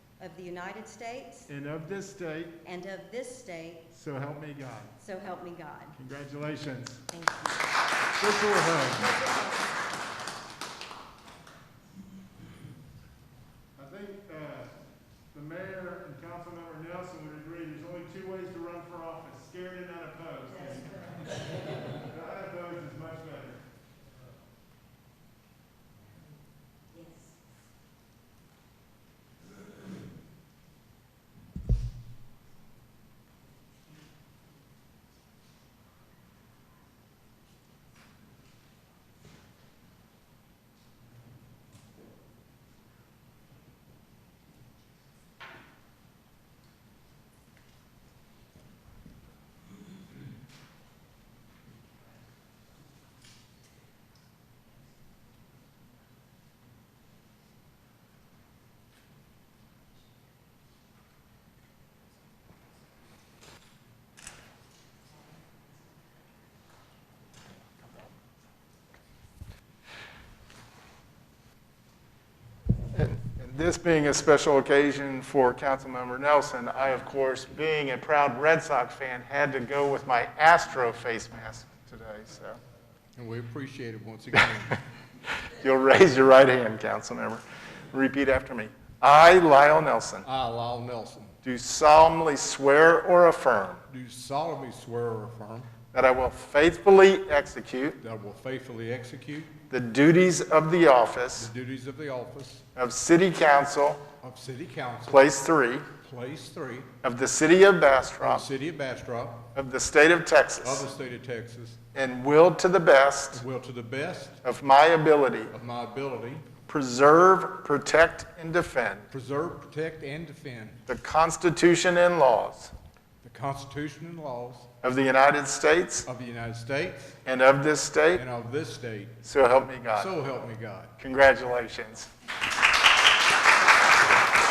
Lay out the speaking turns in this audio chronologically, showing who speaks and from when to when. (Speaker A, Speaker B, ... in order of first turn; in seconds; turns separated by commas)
Speaker A: 0.2-1.5, Speaker B: 1.5-2.6, Speaker A: 2.6-3.9, Speaker B: 3.9-5.0, Speaker A: 5.0-6.0, Speaker B: 6.0-7.0, Speaker A: 7.1-7.6, Speaker B: 8.2-9.2, Speaker B: 13.8-14.7, Speaker B: 15.3-21.2, Speaker B: 22.0-23.6, Speaker B: 72.9-82.6, Speaker C: 83.2-84.8, Speaker B: 85.5-90.3, Speaker C: 90.2-91.3, Speaker B: 91.4-93.8, Speaker C: 93.9-95.7, Speaker B: 95.9-98.0, Speaker C: 98.0-99.5, Speaker B: 99.7-101.5, Speaker C: 101.4-102.6, Speaker B: 102.8-104.0, Speaker C: 104.2-105.2, Speaker B: 105.1-105.9, Speaker C: 106.0-106.9, Speaker B: 107.0-108.5, Speaker C: 108.2-109.5, Speaker B: 109.5-110.9, Speaker C: 110.6-111.8, Speaker B: 111.9-113.4, Speaker C: 113.3-114.4, Speaker B: 114.4-115.5, Speaker C: 115.5-116.5, Speaker B: 116.7-119.1, Speaker C: 119.1-120.8, Speaker B: 120.9-122.7, Speaker C: 123.2-124.7, Speaker B: 124.8-126.1, Speaker C: 126.0-127.2, Speaker B: 127.2-128.3, Speaker C: 128.2-129.2, Speaker B: 129.2-130.1, Speaker C: 129.9-130.9, Speaker B: 131.0-132.1